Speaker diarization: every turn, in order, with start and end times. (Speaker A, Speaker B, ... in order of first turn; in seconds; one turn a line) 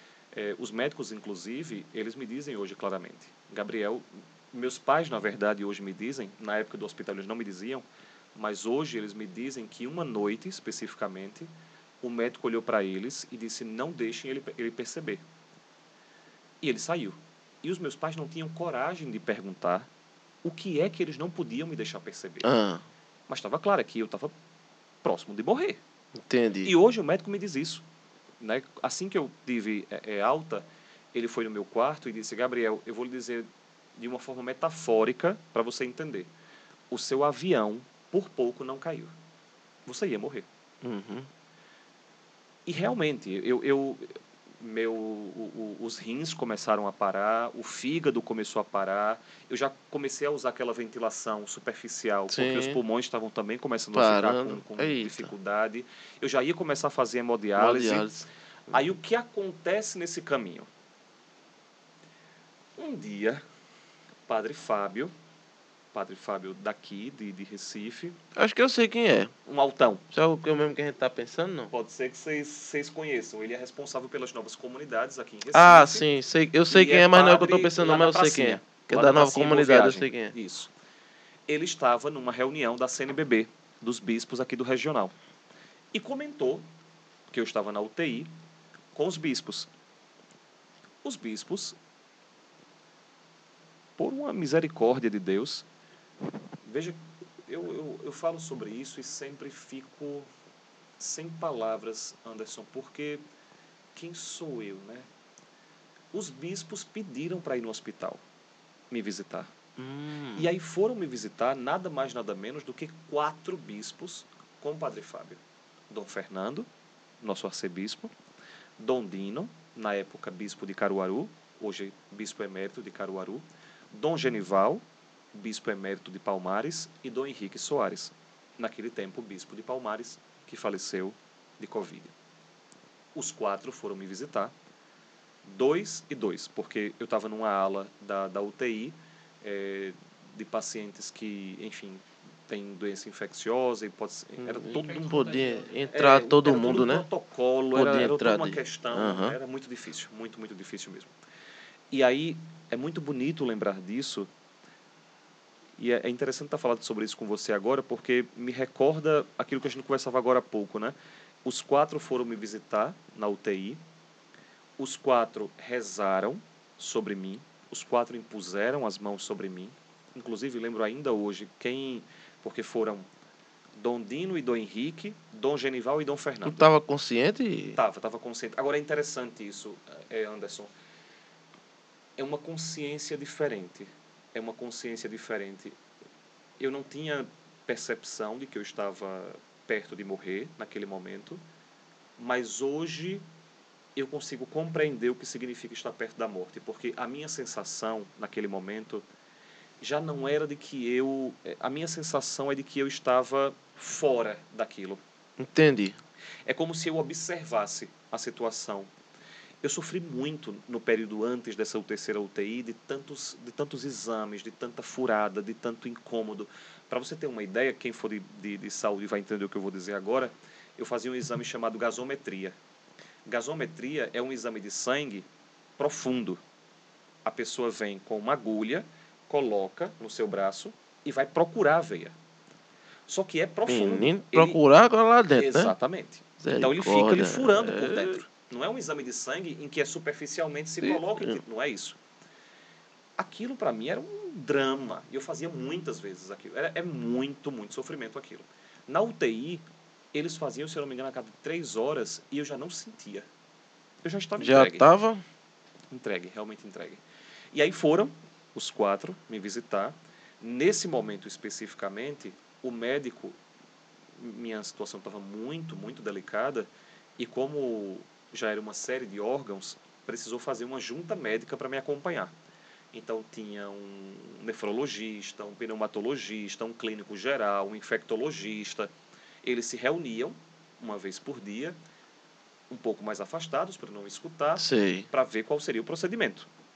Speaker A: 0.3-7.8
Speaker A: 8.3-11.5
Speaker A: 12.0-15.2
Speaker A: 16.6-19.9
Speaker A: 20.4-22.5
Speaker B: 22.4-22.8
Speaker A: 23.3-24.3
Speaker A: 25.0-25.8
Speaker B: 26.2-26.7
Speaker A: 26.6-27.8
Speaker A: 28.4-36.3
Speaker A: 36.9-39.1
Speaker A: 39.9-40.5
Speaker B: 40.8-41.3
Speaker A: 42.7-58.1
Speaker B: 52.3-52.8
Speaker B: 53.9-55.3
Speaker B: 57.6-58.2
Speaker A: 58.7-60.7
Speaker A: 62.8-63.4
Speaker A: 64.3-65.1
Speaker A: 65.9-68.2
Speaker B: 68.3-69.3
Speaker A: 69.5-70.0
Speaker B: 70.1-71.7
Speaker A: 71.7-76.0
Speaker B: 75.5-80.3
Speaker A: 76.7-80.7
Speaker A: 81.5-85.1
Speaker A: 85.9-86.7
Speaker A: 87.3-88.3
Speaker A: 89.0-89.7
Speaker A: 91.0-91.8
Speaker A: 94.0-95.7
Speaker A: 96.7-100.3
Speaker A: 101.0-103.2
Speaker A: 104.0-105.1
Speaker A: 106.1-108.2
Speaker A: 108.9-109.5
Speaker B: 109.8-110.5
Speaker A: 110.4-115.4
Speaker A: 115.9-116.7
Speaker A: 117.2-118.1
Speaker A: 118.8-132.1
Speaker A: 133.2-134.5
Speaker A: 135.4-151.1
Speaker B: 144.4-147.1
Speaker B: 147.7-149.4
Speaker A: 151.9-154.3
Speaker A: 155.8-163.8
Speaker A: 164.8-173.1
Speaker A: 173.8-176.7
Speaker B: 176.4-177.8
Speaker A: 177.8-180.7
Speaker A: 182.2-185.8
Speaker A: 186.6-191.4
Speaker A: 192.2-193.2
Speaker A: 194.0-199.0
Speaker A: 199.8-205.0
Speaker B: 205.4-206.0
Speaker A: 206.5-208.9
Speaker A: 209.6-222.6
Speaker A: 223.3-225.3
Speaker A: 225.8-226.4
Speaker A: 227.2-232.1
Speaker A: 233.1-234.6
Speaker B: 233.7-235.7
Speaker A: 235.4-242.0
Speaker B: 236.4-238.2
Speaker B: 240.8-241.4
Speaker A: 243.2-249.6
Speaker A: 250.1-253.3
Speaker A: 254.0-254.8
Speaker B: 254.4-255.2
Speaker A: 255.9-257.0
Speaker A: 257.5-263.4
Speaker A: 264.2-266.7
Speaker A: 267.2-272.3
Speaker A: 272.9-278.9
Speaker A: 279.4-281.8
Speaker A: 282.7-286.5
Speaker B: 284.6-285.1